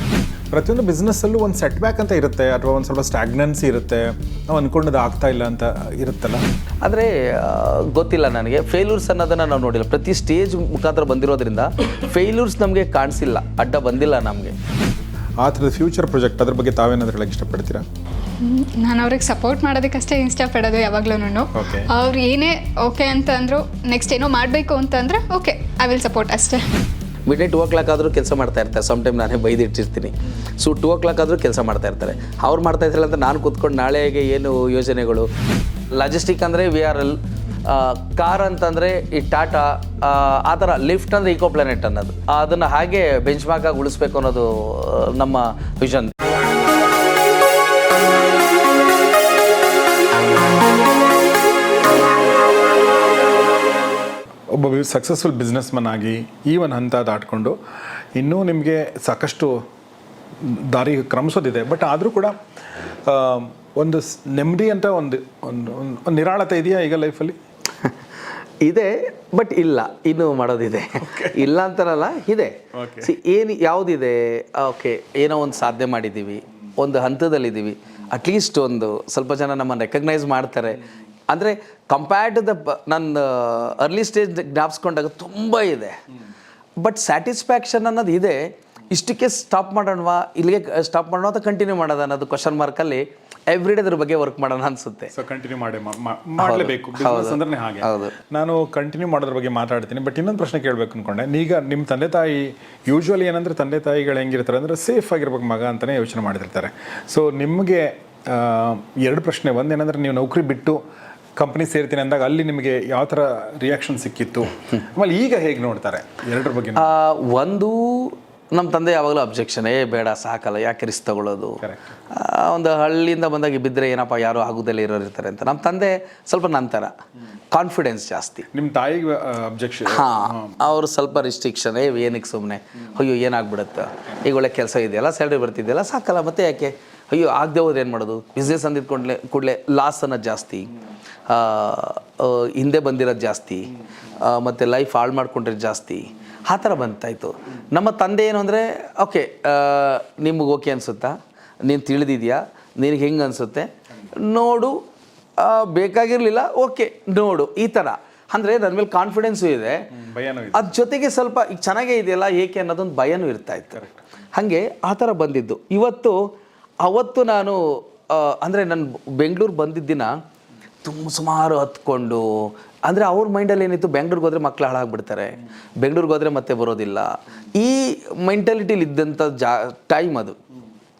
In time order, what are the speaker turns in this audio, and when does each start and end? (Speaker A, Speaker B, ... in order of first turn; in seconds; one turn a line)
Speaker A: 0.5-6.4
Speaker B: 6.8-14.5
Speaker A: 15.4-17.8
Speaker C: 18.4-26.7
Speaker A: 21.5-21.9
Speaker B: 27.3-35.3
Speaker B: 35.9-46.1
Speaker A: 54.5-57.6
Speaker A: 58.1-59.6
Speaker A: 60.4-62.4
Speaker A: 63.0-67.4
Speaker B: 68.6-86.0
Speaker A: 71.0-71.5
Speaker A: 72.8-73.1
Speaker B: 86.8-95.1
Speaker A: 95.1-110.8
Speaker B: 96.4-98.1
Speaker A: 111.3-116.9
Speaker B: 116.8-126.9
Speaker A: 121.6-121.9
Speaker B: 127.5-128.4
Speaker A: 128.5-130.6
Speaker B: 129.9-140.7
Speaker B: 141.3-154.8
Speaker B: 155.4-159.8
Speaker A: 159.9-160.7
Speaker B: 160.5-170.2
Speaker B: 170.8-180.4